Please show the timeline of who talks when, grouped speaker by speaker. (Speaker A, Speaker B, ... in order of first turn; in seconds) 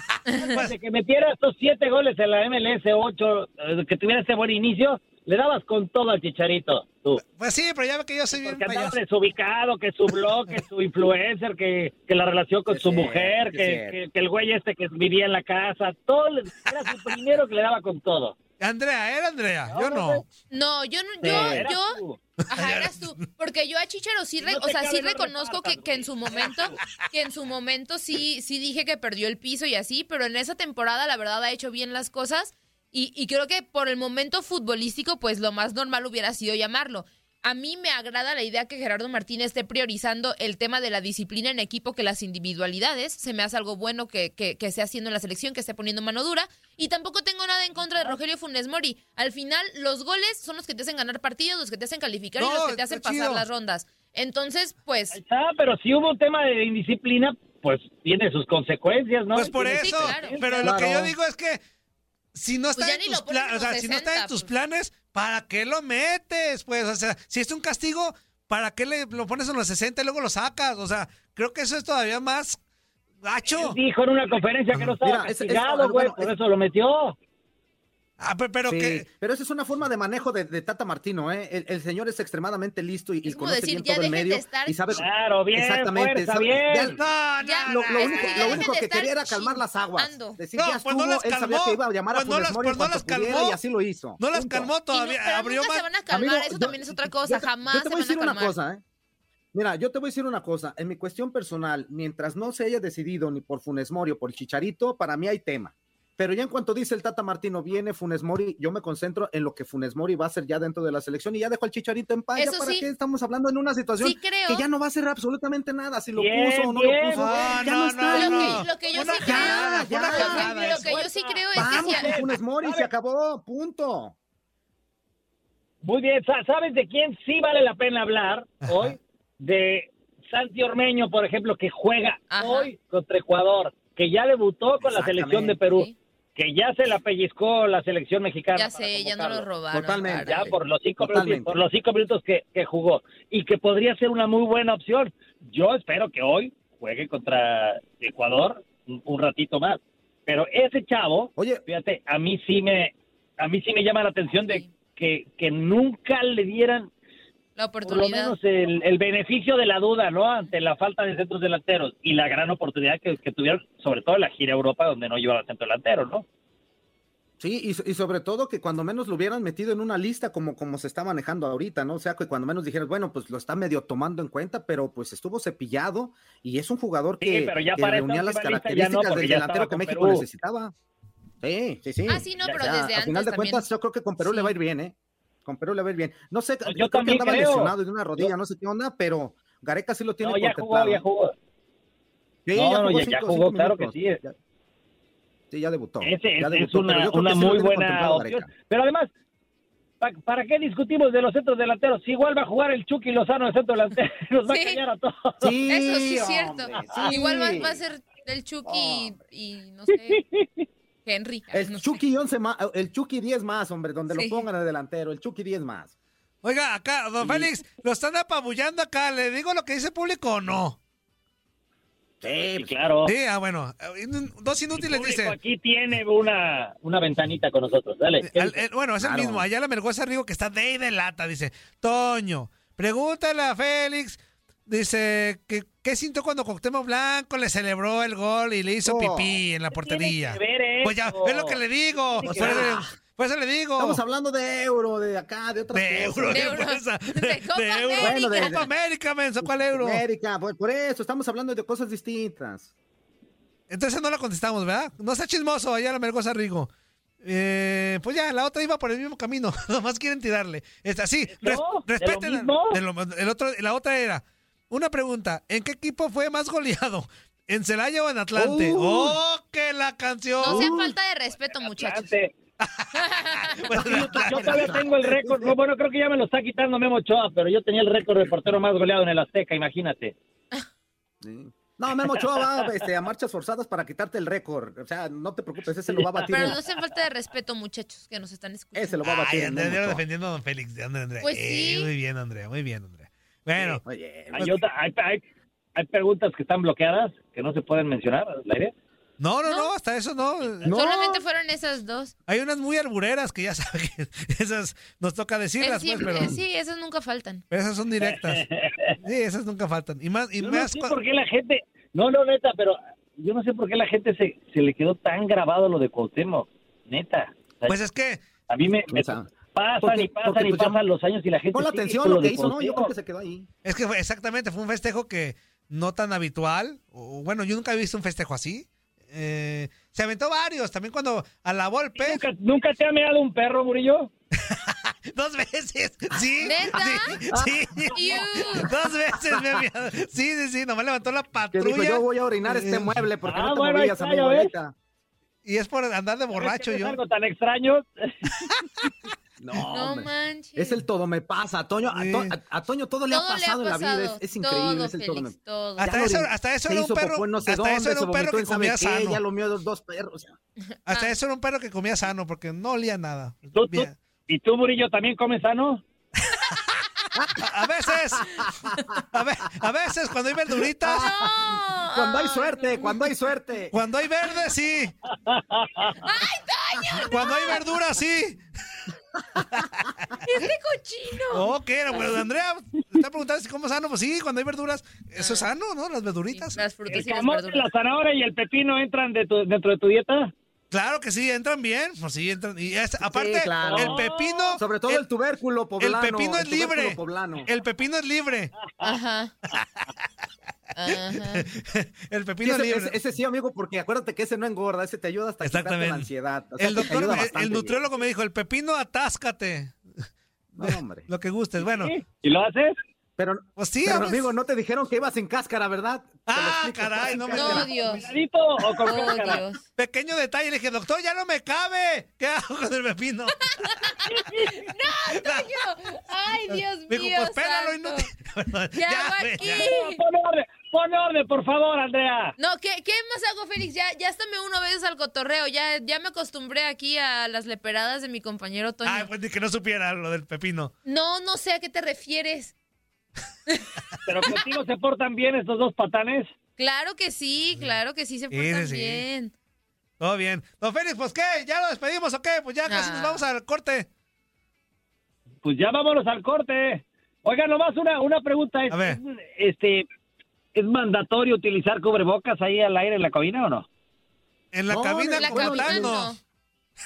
Speaker A: 0.4-7.2, 8.3-18.4, 19.7-20.2, 21.2-22.2, 24.4-26.8, 47.8-48.2, 55.1-60.6, 73.5-77.2, 84.9-87.0, 116.2-117.3, 120.2-122.9, 125.8-139.5, 140.2-156.9, 157.8-166.2, 177.2-180.2, 186.7-188.3, 190.2-191.3, 192.6-194.2, 196.0-199.1, 200.0-205.6, 210.1-210.7, 222.6-223.1, 224.8-228.6, 239.7-241.6, 242.1-242.7, 261.3-262.8, 271.6-272.3, 273.9-280.1, 282.1-282.6, 285.9-286.5, 294.3-295.2, 295.8-298.7, 308.0-309.0, 310.4-317.8, 318.5-322.9, 332.0-334.1, 343.2-344.5, 346.3-348.5, 363.6-365.8, 375.2-376.0, 386.9-390.3, 393.6-394.6, 398.7-398.9, 411.6-412.8, 417.8-419.4, 424.1-424.5, 429.4-432.4, 444.1-446.3, 455.4-459.9, 460.6-463.7
Speaker B: 7.2-9.0, 18.6-20.2, 22.5-23.2, 52.4-53.5, 59.3-61.6, 62.3-72.6, 73.2-73.8, 78.2-79.1, 86.9-88.7, 90.6-93.6, 94.2-96.0, 117.1-121.0, 128.6-129.0, 216.4-220.8, 223.1-225.3, 228.2-244.0, 245.7-250.0, 253.7-256.7, 257.2-270.7, 272.6-274.8, 289.0-293.8, 299.2-300.7, 302.3-306.4, 307.5-308.4, 309.0-310.9, 317.7-318.2, 323.6-332.2, 334.4-343.0, 345.4-347.0, 351.9-352.4, 355.8-359.2, 360.9-363.9, 367.4-368.5, 369.1-371.1, 373.7-374.9, 377.1-378.8, 379.6-379.8, 381.3-386.6, 390.7-395.0, 395.8-398.5, 399.5-399.9, 400.9-403.0, 405.4-409.8, 410.6-411.9, 413.6-414.3, 416.3-418.1, 419.8-423.9, 425.1-425.5, 426.5-429.7, 438.8-440.7, 448.3-449.0, 450.0-453.9, 458.7-459.0, 464.5-466.1
Speaker C: 12.7-14.0, 21.2-21.7, 60.6-61.1, 75.0-76.3, 78.7-87.0, 87.7-94.7, 96.1-98.8, 99.5-124.2, 134.8-135.6, 139.7-141.5, 151.4-151.6, 167.4-180.7, 181.4-184.9, 185.5-191.0, 192.5-194.3, 195.5-198.5, 205.4-207.8, 208.7-209.2, 211.5-215.9, 222.2-222.7, 229.0-229.5, 238.8-239.4, 242.3-242.9, 243.8-246.6, 248.0-248.7, 249.4-252.7, 268.4-269.2, 270.4-270.9, 273.7-275.6, 281.2-286.6, 288.8-290.0, 293.6-294.6, 300.6-301.2, 318.9-319.3, 319.8-320.8, 321.5-323.5, 337.3-337.6, 338.7-339.6, 341.5-344.7, 349.4-360.3, 368.3-369.0, 371.0-373.7, 393.0-397.5, 402.4-407.8, 410.6-411.1, 413.2-417.7, 464.7-466.0
Speaker D: 20.5-22.0, 22.5-55.2, 59.6-60.7, 62.8-64.5, 83.2-84.8, 87.4-90.4, 94.9-98.6, 112.4-112.9, 114.0-114.7, 118.1-122.2, 132.3-132.7, 135.7-135.9, 138.6-140.5, 157.6-158.4, 182.1-183.7, 184.2-184.5, 204.5-204.8, 205.7-210.2, 211.1-212.0, 214.1-214.4, 246.3-248.7, 270.4-272.1, 272.9-273.7, 286.3-289.0, 291.2-291.9, 299.4-299.7, 300.7-302.1, 305.6-307.4, 336.4-337.2, 337.9-338.7, 349.7-350.8, 353.1-356.0, 370.9-373.0, 376.0-377.6, 380.2-381.5, 385.2-385.5, 386.3-387.7, 398.8-399.3, 400.8-401.4, 417.3-418.1, 418.9-419.6, 423.5-428.1, 428.7-430.0, 432.4-439.1, 440.9-442.5, 446.6-449.3, 452.7-453.3, 465.1-466.2